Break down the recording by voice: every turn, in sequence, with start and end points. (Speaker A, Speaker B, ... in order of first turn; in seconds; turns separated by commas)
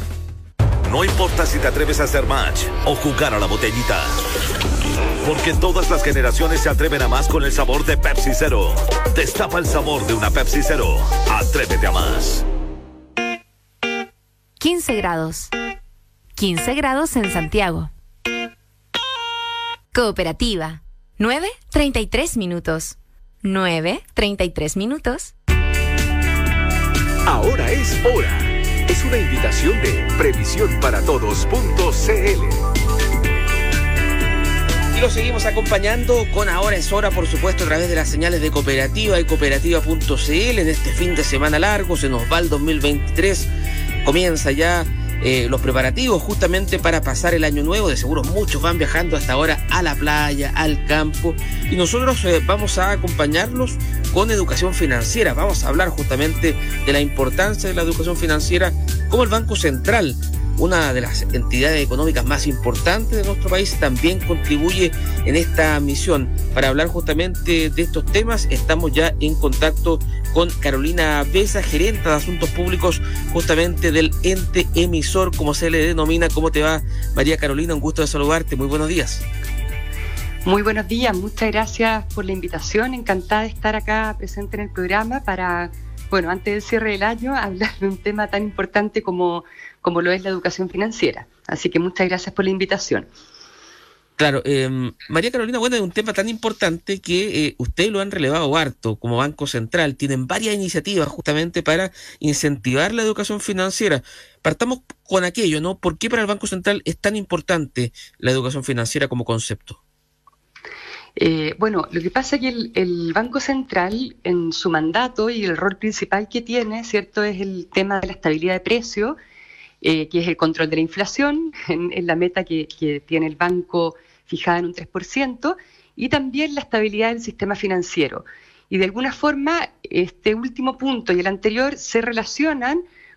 Speaker A: 0.9-4.2, Speaker A: 5.2-12.4, Speaker B: 14.6-15.5, Speaker B: 16.4-17.9, Speaker B: 19.9-25.3, Speaker C: 27.3-32.6, Speaker D: 34.9-43.5, Speaker D: 44.0-79.2, Speaker E: 80.4-93.1, Speaker D: 94.2-109.8, Speaker E: 111.2-119.2, Speaker E: 119.8-132.8